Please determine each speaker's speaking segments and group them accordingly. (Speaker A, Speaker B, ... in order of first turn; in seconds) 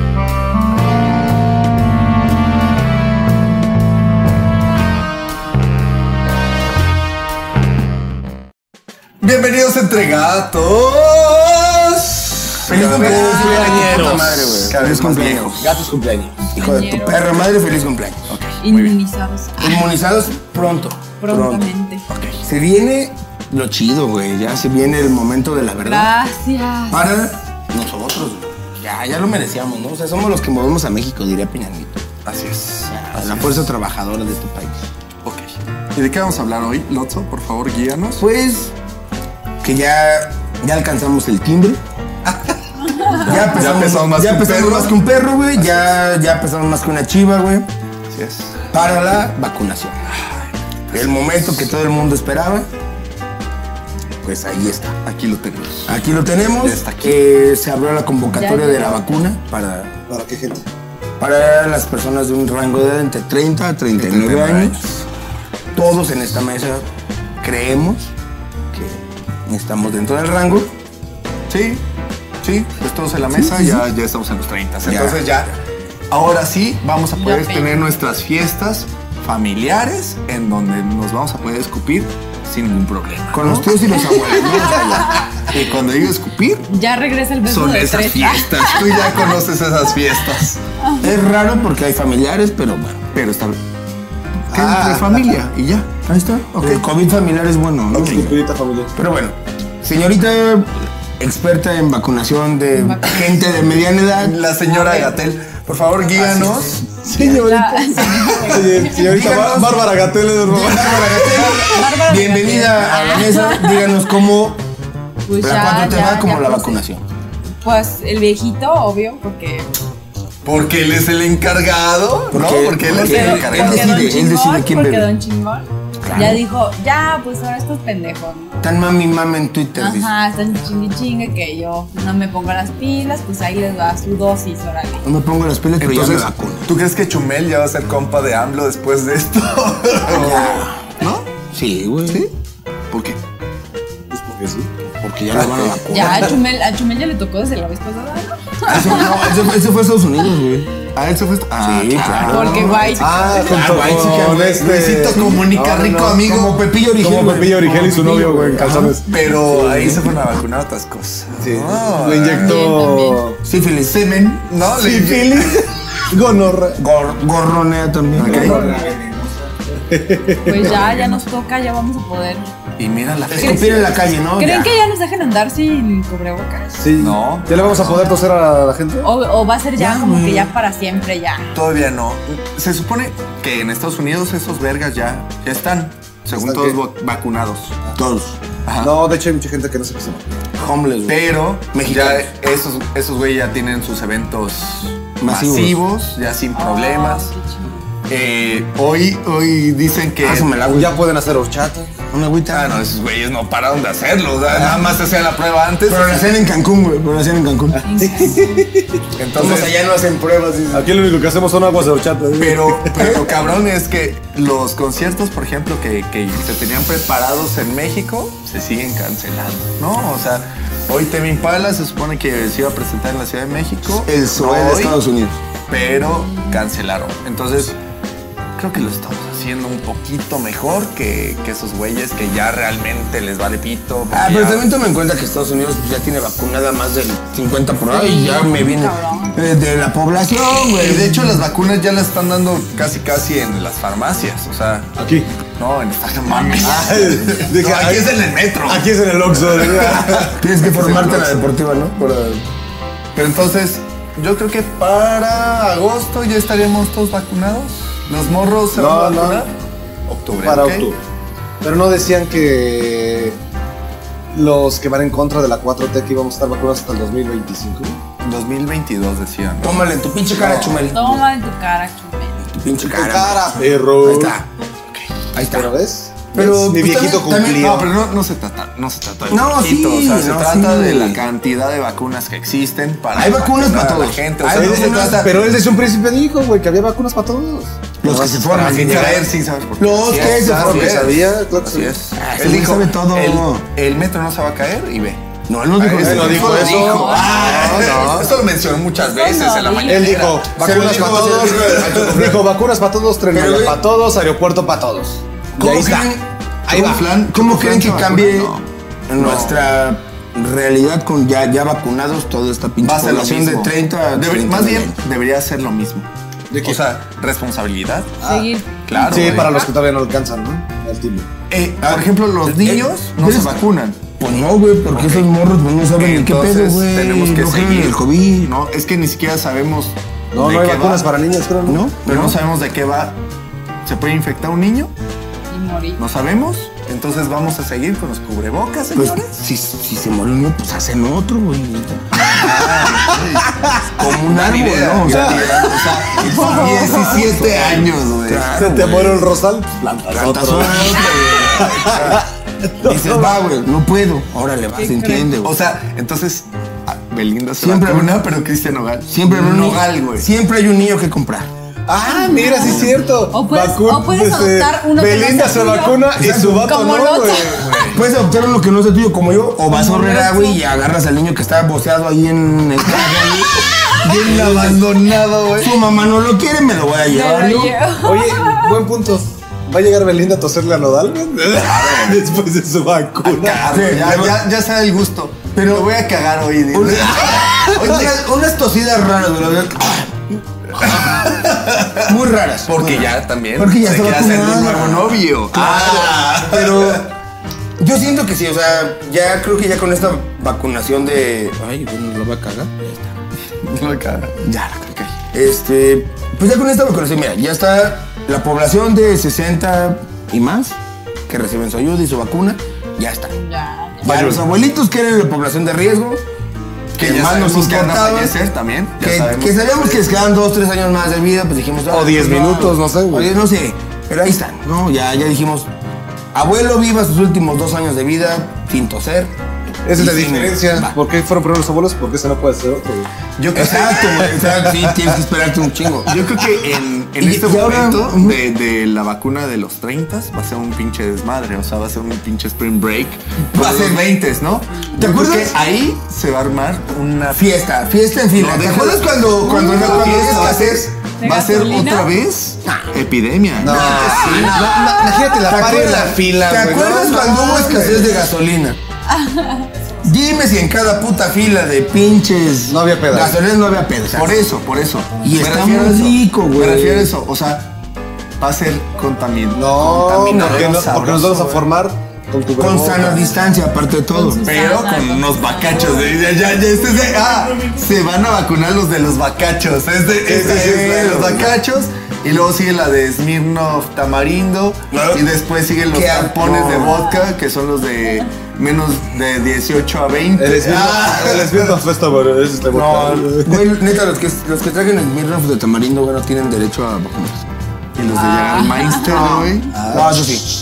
Speaker A: 9.2-15.9, 18.3-19.0, 22.1-22.4, 32.2-33.7, 35.2-38.2, 42.2-45.0, 45.5-45.9, 48.1-48.6, 50.1-51.7, 55.0-56.0, 56.5-57.2, 64.0-65.1, 71.5-71.8, 72.4-75.6, 76.1-84.8, 85.5-86.7, 87.4-90.6, 93.1-93.6, 94.5-95.9, 104.2-106.9, 110.6-111.6, 120.4-124.1, 135.8-141.3, 142.9-143.2, 145.4-145.8, 150.9-152.8, 153.8-156.6, 159.1-162.6, 163.8-165.7, 168.2-168.7, 170.4-171.3, 172.8-174.0, 177.0-178.2, 181.5-187.8, 188.7-189.0, 191.1-197.3, 198.1-200.5, 202.5-206.3, 209.1-209.8, 212.4-225.0, 225.7-227.8, 228.6-234.7, 240.7-244.9, 245.6-251.5, 253.2-259.5, 260.1-260.9, 268.2-270.9, 277.6-285.4, 288.6-295.2, 295.8-300.5, 301.5-302.3, 306.7-309.6, 312.8-316.1, 316.6-318.2, 318.9-319.6, 321.5-324.0, 324.9-325.3, 326.0-331.1, 332.1-333.2, 333.8-334.9, 336.0-339.4, 342.3-349.3, 351.8-352.2, 355.1-360.3, 362.6-363.0, 374.0-375.8, 381.6-382.3, 383.2-388.1, 390.8-392.0, 392.7-397.1, 403.6-404.4, 417.0-420.3, 433.4-434.3, 436.1-447.5, 448.4-454.6, 464.1-467.7, 468.4-471.7, 474.4-491.8, 498.0-499.8
Speaker B: 12.7-15.9, 16.4-18.4, 19.6-21.7, 22.4-26.1, 26.9-32.0, 32.9-34.9, 38.2-38.7, 39.6-41.8, 43.1-47.7, 48.7-50.0, 50.9-52.7, 54.2-55.0, 55.9-59.9, 61.2-64.8, 65.8-66.8, 67.4-68.1, 68.7-70.7, 73.3-73.9, 74.8-75.4, 83.3-85.2, 91.0-93.0, 96.0-98.4, 99.0-104.3, 106.2-107.4, 108.9-109.8, 110.5-114.6, 115.4-117.0, 122.3-125.1, 126.0-126.4, 128.6-130.1, 135.0-136.7, 140.1-142.3, 145.0-146.4, 148.7-150.7, 151.6-154.7, 156.2-159.0, 159.6-160.1, 163.4-164.0, 166.8-168.8, 173.3-174.7, 179.8-180.5, 188.0-188.4, 190.6-192.3, 195.2-195.8, 200.2-201.0, 202.1-202.8, 205.9-207.8, 209.3-210.9, 212.9-213.3, 223.9-225.4, 234.1-241.4, 246.7-247.0, 250.4-252.4, 269.6-271.3, 272.5-274.5, 275.3-275.7, 276.3-277.8, 279.3-281.2, 283.1-285.3, 288.0-291.0, 292.1-293.7, 295.5-297.4, 300.6-302.3, 303.3-303.8, 305.6-308.6, 309.1-315.0, 321.8-323.6, 324.2-328.5, 331.6-332.4, 338.9-342.4, 343.9-348.7, 350.1-352.2, 352.8-355.5, 357.6-358.2, 359.1-361.5, 366.2-366.7, 367.9-373.6, 374.3-374.8, 375.6-377.8, 383.6-384.4, 385.6-385.9, 386.7-391.4, 392.0-397.1, 397.8-403.1, 404.4-410.8, 411.3-413.4, 414.0-416.2, 417.0-418.4, 419.0-425.7, 426.3-429.3, 429.9-431.0, 433.5-436.2, 437.2-438.4, 443.5-444.1, 444.9-445.6, 447.3-450.9, 453.6-454.8, 455.4-458.8, 460.0-464.6, 465.2-467.1, 472.6-474.4, 480.5-481.5, 484.9-485.3, 485.9-487.1, 492.7-497.5, 499.0-500.5
Speaker C: 12.8-14.7, 15.7-16.4, 60.1-60.6, 94.5-95.4, 97.9-98.9, 106.2-111.5, 144.1-144.7, 145.3-146.3, 153.0-156.3, 157.0-160.0, 161.4-163.4, 164.6-166.8, 168.2-170.6, 176.8-179.1, 186.3-186.8, 188.8-190.2, 200.4-201.9, 204.5-204.9, 207.7-209.0, 210.7-213.2, 245.0-245.3, 246.6-250.4, 258.7-259.4, 260.4-261.0, 261.6-263.4, 264.3-268.0, 272.8-274.4, 275.5-277.9, 284.5-289.3, 290.1-292.0, 296.0-298.4, 299.9-306.1, 306.7-307.0, 316.5-316.8, 318.2-318.5, 319.1-321.3, 330.3-331.8, 342.4-343.2, 345.0-345.6, 348.6-353.4, 361.9-368.0, 378.0-383.7, 414.0-414.4, 421.9-423.3, 429.9-435.2, 453.6-458.1, 462.7-463.4, 469.5-473.3, 480.3-480.8, 490.4-493.6, 499.7-500.3
Speaker D: 16.5-17.3, 18.6-19.9, 21.2-22.0, 25.8-27.1, 58.4-59.1, 77.2-78.0, 84.8-85.4, 86.7-89.4, 90.8-91.1, 102.7-103.3, 104.7-105.2, 107.2-109.0, 111.7-114.2, 115.2-116.8, 117.6-119.7, 123.0-128.6, 129.8-135.1, 145.9-149.4, 152.3-153.6, 162.4-163.2, 170.4-172.5, 173.3-176.8, 179.0-181.5, 196.5-197.8, 207.9-208.7, 237.9-239.4, 246.3-247.1, 270.9-272.5, 296.7-298.1, 299.0-300.2, 318.2-319.7, 335.5-336.0, 346.5-346.9, 354.8-355.3, 362.0-367.8, 369.7-370.6, 373.3-374.3, 377.1-378.8, 413.3-414.1, 449.4-450.5, 451.2-452.1, 453.8-455.4, 457.2-457.8, 459.1-459.7, 474.1-476.4, 498.1-499.3